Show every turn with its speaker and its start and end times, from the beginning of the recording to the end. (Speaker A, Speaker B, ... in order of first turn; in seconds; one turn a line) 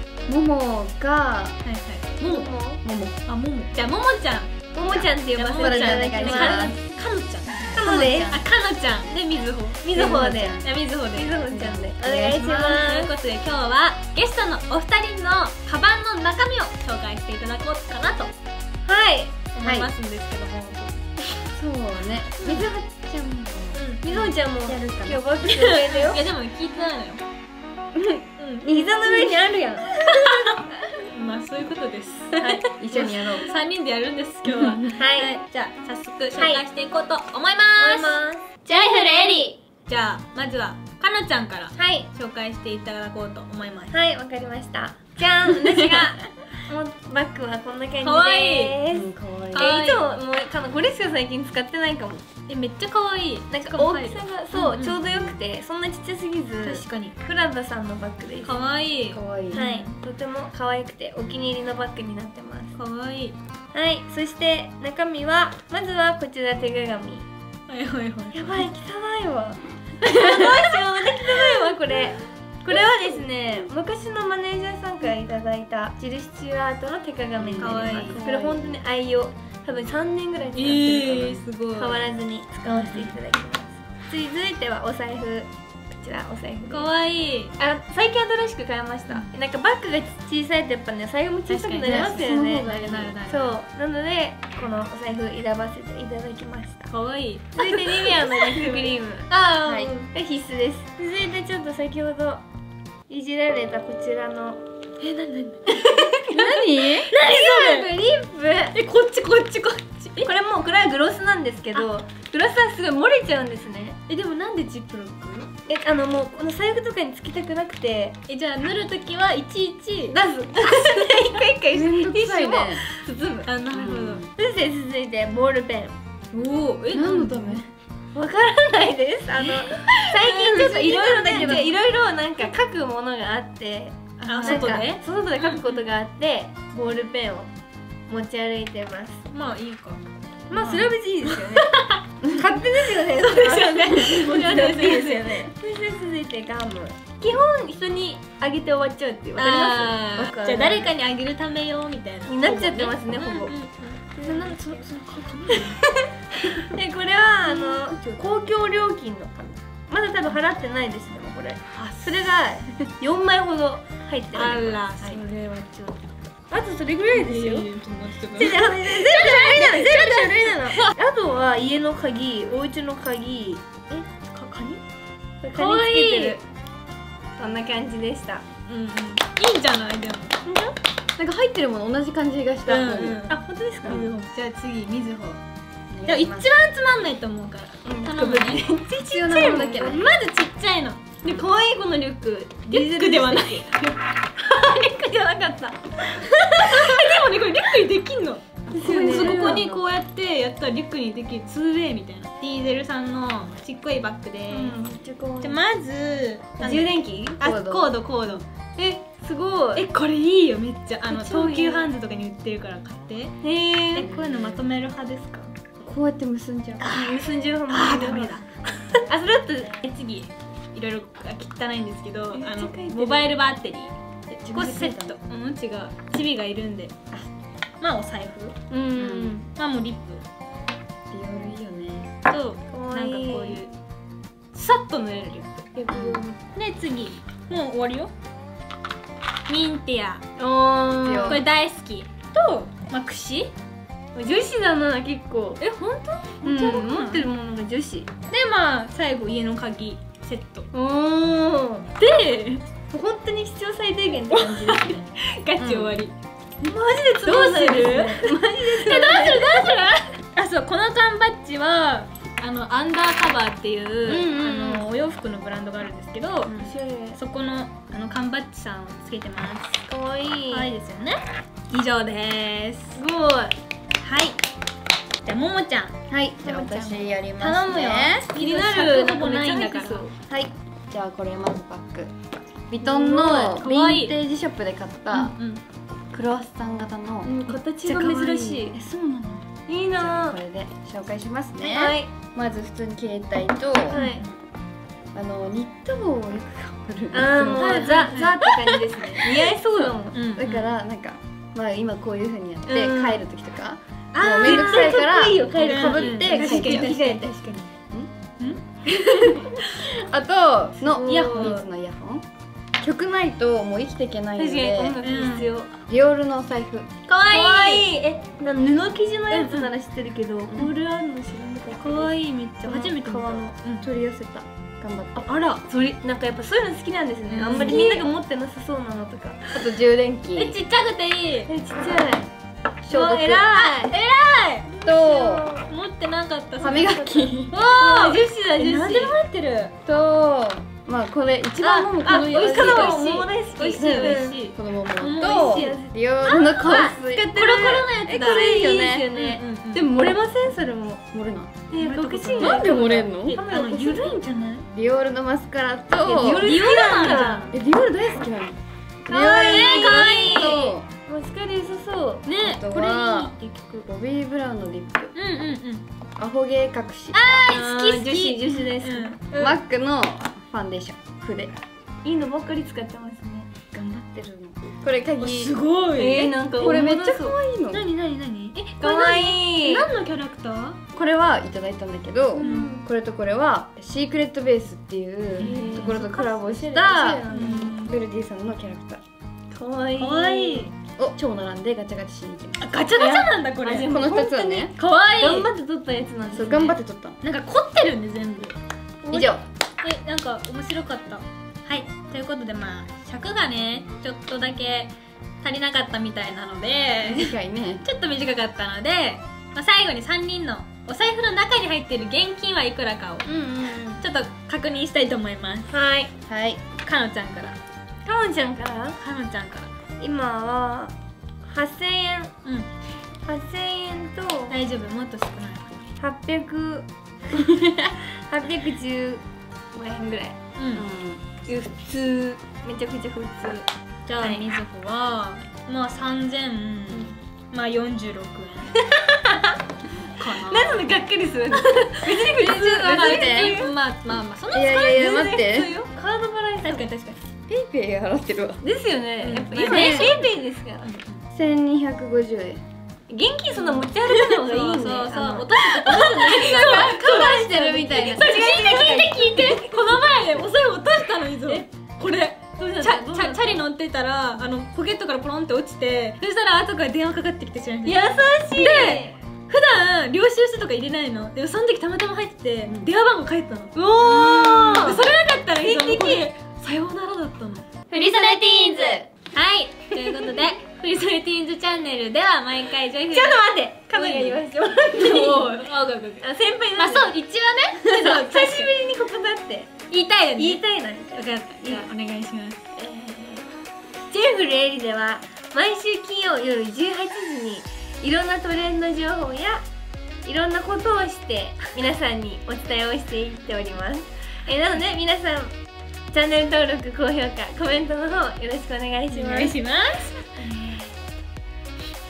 Speaker A: 0.3-1.6
Speaker B: 1.6-2.5
Speaker C: 2.2-2.8
Speaker A: 2.8-3.2
Speaker B: 3.2-4.5
Speaker C: 4.7-6.7
Speaker A: 4.8-6.8
Speaker B: 5.3-11.3
Speaker C: 7.7-8.4
Speaker A: 7.8-8.4
Speaker C: 9.8-10.6
Speaker A: 9.9-10.7
Speaker C: 11.1-13.1
Speaker A: 11.5-12.6
Speaker B: 12.2-18.3
Speaker C: 18.9-19.4
Speaker B: 19.5-21.0
Speaker A: 19.6-19.9
Speaker A: 21.5-25.2
Speaker B: 22.4-22.7
Speaker B: 23.7-24.0
Speaker C: 24.0-26.2
Speaker B: 25.4-27.2
Speaker B: 28.4-28.7
Speaker C: 28.6-30.6
Speaker B: 30.0-44.0
Speaker C: 32.4-32.6
Speaker A: 32.8-33.5
Speaker C: 34.9-35.4
Speaker C: 36.4-36.6
Speaker C: 37.8-39.5
Speaker C: 41.8-42.1
Speaker C: 43.9-52.2
Speaker B: 48.0-48.8
Speaker A: 48.9-49.7
Speaker B: 49.5-50.0
Speaker B: 52.5-55.0
Speaker C: 53.5-58.6
Speaker A: 54.9-55.3
Speaker B: 56.6-57.2
Speaker B: 58.4-60.0
Speaker A: 59.1-59.7
Speaker C: 59.5-62.7
Speaker B: 62.7-63.4
Speaker C: 63.7-67.2
Speaker B: 67.7-68.7
Speaker C: 68.3-86.9
Speaker B: 70.2-70.6
Speaker A: 77.4-78.8
Speaker B: 77.6-78.2
Speaker B: 80.5-82.0
Speaker B: 82.7-83.1
Speaker B: 86.7-87.5
Speaker C: 87.6-92.7
Speaker B: 91.5-93.5
Speaker A: 91.8-93.2
Speaker C: 93.2-96.9
Speaker B: 96.9-100.1
Speaker C: 97.5-99.3
Speaker A: 99.6-99.9
Speaker C: 100.1-102.4
Speaker C: 103.1-104.6
Speaker B: 105.0-107.9
Speaker A: 106.3-107.1
Speaker C: 107.1-108.8
Speaker B: 108.7-110.3
Speaker C: 110.2-114.0
Speaker B: 114.1-115.5
Speaker C: 115.7-118.2
Speaker B: 118.3-121.4
Speaker C: 120.1-123.5
Speaker A: 121.7-122.8
Speaker B: 122.9-124.2
Speaker A: 123.7-124.3
Speaker C: 124.3-126.0
Speaker B: 126.3-127.6
Speaker A: 126.9-127.7
Speaker C: 128.1-137.5
Speaker B: 129.4-131.7
Speaker A: 131.3-131.6
Speaker B: 134.2-135.8
Speaker A: 134.3-134.8
Speaker C: 138.1-139.2
Speaker B: 139.3-142.0
Speaker C: 140.5-150.9
Speaker B: 143.1-145.5
Speaker B: 149.4-155.8
Speaker C: 152.2-153.5
Speaker C: 154.2-154.8
Speaker C: 155.5-165.6
Speaker A: 157.9-158.3
Speaker B: 161.7-162.3
Speaker B: 164.3-165.2
Speaker C: 166.5-167.7
Speaker B: 167.1-170.9
Speaker C: 168.3-173.6
Speaker B: 173.9-174.8
Speaker C: 175.4-176.4
Speaker B: 175.5-176.4
Speaker C: 177.3-178.4
Speaker B: 178.7-180.4
Speaker C: 180.4-180.8
Speaker A: 181.2-183.2
Speaker B: 182.7-185.4
Speaker C: 183.3-184.1
Speaker A: 183.8-184.1
Speaker A: 185.9-186.5
Speaker B: 186.1-191.4
Speaker C: 187.8-190.1
Speaker A: 188.9-190.1
Speaker C: 191.2-193.8
Speaker B: 192.7-194.0
Speaker C: 194.4-197.1
Speaker B: 196.2-204.8
Speaker C: 198.7-199.7
Speaker A: 198.8-199.8
Speaker C: 204.5-205.6
Speaker B: 205.4-209.0
Speaker C: 206.6-207.4
Speaker A: 207.4-208.0
Speaker C: 209.2-209.9
Speaker B: 209.7-213.3
Speaker C: 211.1-211.9
Speaker C: 213.4-214.1
Speaker B: 213.9-215.5
Speaker A: 214.0-214.7
Speaker A: 215.8-216.9
Speaker C: 216.8-218.4
Speaker B: 217.7-219.1
Speaker C: 219.1-219.8
Speaker B: 219.8-223.9
Speaker C: 222.3-223.3
Speaker A: 224.3-225.1
Speaker B: 224.5-226.9
Speaker B: 227.8-228.5
Speaker C: 228.7-229.4
Speaker A: 228.9-229.4
Speaker B: 229.5-230.2
Speaker A: 231.1-232.1
Speaker B: 232.3-233.7
Speaker C: 232.7-233.6
Speaker B: 234.5-235.7
Speaker C: 235.7-236.3
Speaker A: 235.9-236.2
Speaker B: 236.5-238.1
Speaker B: 239.5-240.2
Speaker C: 240.4-241.4
Speaker A: 241.0-241.4
Speaker B: 241.2-243.5
Speaker C: 244.1-245.6
Speaker B: 245.6-247.2
Speaker C: 246.4-248.1
Speaker B: 248.3-250.7
Speaker C: 250.7-251.9
Speaker B: 252.0-252.6
Speaker C: 252.9-255.1
Speaker B: 254.3-256.1
Speaker C: 255.6-255.9
Speaker C: 256.6-259.9
Speaker B: 257.2-269.8
Speaker C: 264.1-264.8
Speaker C: 266.5-267.2
Speaker C: 269.9-270.7
Speaker B: 270.5-273.0
Speaker C: 272.9-273.6
Speaker B: 274.0-274.4
Speaker B: 275.2-275.9
Speaker A: 276.1-278.2
Speaker B: 276.4-276.8
Speaker C: 276.4-280.1
Speaker B: 277.4-280.1
Speaker A: 280.3-282.1
Speaker A: 282.7-285.4
Speaker C: 282.8-283.5
Speaker B: 283.0-284.1
Speaker B: 285.1-285.6
Speaker A: 286.1-287.3
Speaker C: 287.2-288.8
Speaker B: 287.4-288.7
Speaker A: 288.7-294.1
Speaker C: 289.7-290.4
Speaker C: 291.6-292.1
Speaker C: 293.9-294.2
Speaker B: 293.9-294.3
Speaker A: 295.1-298.1
Speaker C: 297.1-300.2
Speaker B: 297.6-300.7
Speaker A: 300.3-306.9
Speaker C: 302.7-303.2
Speaker B: 304.1-305.0
Speaker C: 304.2-307.7
Speaker B: 305.6-307.6
Speaker B: 308.4-309.7
Speaker C: 308.9-309.5
Speaker A: 309.7-312.2
Speaker C: 310.8-311.6
Speaker B: 311.1-311.6
Speaker A: 312.8-315.0
Speaker C: 314.4-315.7
Speaker B: 315.0-315.5
Speaker A: 315.9-316.9
Speaker C: 317.1-323.5
Speaker B: 317.2-317.9
Speaker B: 319.3-319.7
Speaker B: 321.8-323.9
Speaker A: 323.8-325.3
Speaker B: 325.2-325.6
Speaker C: 325.5-329.6
Speaker B: 327.3-328.0
Speaker A: 327.7-328.0
Speaker A: 329.5-330.6
Speaker B: 330.4-331.5
Speaker C: 331.5-332.3
Speaker A: 332.8-333.5
Speaker C: 332.9-333.9
Speaker B: 333.5-334.7
Speaker C: 334.7-335.7
Speaker A: 334.8-335.5
Speaker B: 335.7-337.0
Speaker A: 336.6-337.6
Speaker C: 336.7-339.2
Speaker B: 337.5-339.7
Speaker A: 339.8-343.0
Speaker C: 341.6-344.4
Speaker B: 342.3-345.8
Speaker A: 343.8-347.2
Speaker C: 345.2-351.0
Speaker B: 347.3-349.9
Speaker A: 351.1-351.6
Speaker C: 351.7-354.2
Speaker B: 351.8-354.7
Speaker A: 352.4-353.4
Speaker A: 354.7-356.6
Speaker C: 356.0-357.5
Speaker B: 356.1-357.5
Speaker A: 357.5-360.9
Speaker C: 359.1-362.2
Speaker B: 359.5-360.6
Speaker B: 362.2-363.9
Speaker A: 362.4-363.3
Speaker A: 363.8-365.1
Speaker B: 365.1-365.8
Speaker A: 366.2-367.3
Speaker B: 367.1-369.6
Speaker C: 367.5-369.2
Speaker A: 369.3-371.5
Speaker C: 372.0-373.5
Speaker A: 373.7-375.6
Speaker B: 375.2-377.2
Speaker C: 375.9-377.3
Speaker A: 376.6-377.9
Speaker B: 377.7-380.8
Speaker C: 378.8-379.9
Speaker A: 380.9-389.0
Speaker C: 382.4-382.8
Speaker B: 382.4-382.7
Speaker B: 385.4-386.0
Speaker C: 385.4-387.8
Speaker B: 387.3-387.9
Speaker C: 389.5-390.7
Speaker B: 390.0-390.7
Speaker A: 391.0-392.8
Speaker B: 392.6-393.9
Speaker C: 392.9-396.7
Speaker A: 393.8-394.7
Speaker B: 394.8-395.5
Speaker A: 396.3-397.2
Speaker B: 397.2-413.3
Speaker A: 399.1-399.4
Speaker A: 407.0-407.8
Speaker C: 413.2-414.0
Speaker B: 413.9-415.7
Speaker C: 415.7-416.1
Speaker A: 416.2-416.6
Speaker B: 416.8-417.6
Speaker C: 418.0-419.0
Speaker B: 419.0-419.7
Speaker C: 420.0-422.3
Speaker C: 423.2-424.6
Speaker B: 424.5-425.7
Speaker C: 426.0-430.4
Speaker B: 430.6-430.8
Speaker A: 430.7-431.5
Speaker C: 431.5-433.6
Speaker B: 434.1-438.8
Speaker C: 434.2-434.4
Speaker C: 438.8-439.6
Speaker B: 440.1-440.9
Speaker C: 440.3-443.7
Speaker B: 442.2-445.3
Speaker A: 442.4-443.7
Speaker A: 444.5-445.7
Speaker C: 444.9-446.9
Speaker B: 446.6-447.2
Speaker A: 447.5-448.6
Speaker C: 448.6-450.9
Speaker B: 449.2-450.3
Speaker A: 449.6-450.1
Speaker B: 450.8-451.2
Speaker A: 451.3-452.6
Speaker C: 453.1-460.0
Speaker B: 453.5-477.7
Speaker A: 456.4-458.5
Speaker C: 462.6-463.6
Speaker C: 467.8-469.1
Speaker C: 473.7-475.0
Speaker C: 475.6-476.3
Speaker C: 477.9-479.1
Speaker B: 479.3-486.2
Speaker C: 479.9-480.4
Speaker C: 483.1-487.1
Speaker B: 486.8-488.7
Speaker C: 487.8-489.7
Speaker B: 489.9-490.6
Speaker C: 490.4-491.9
Speaker B: 491.1-492.6
Speaker C: 492.7-493.4
Speaker C: 494.1-499.6
Speaker C: 500.2-505.5
Speaker C: 506.1-509.6
Speaker B: 509.1-510.8
Speaker C: 510.5-510.7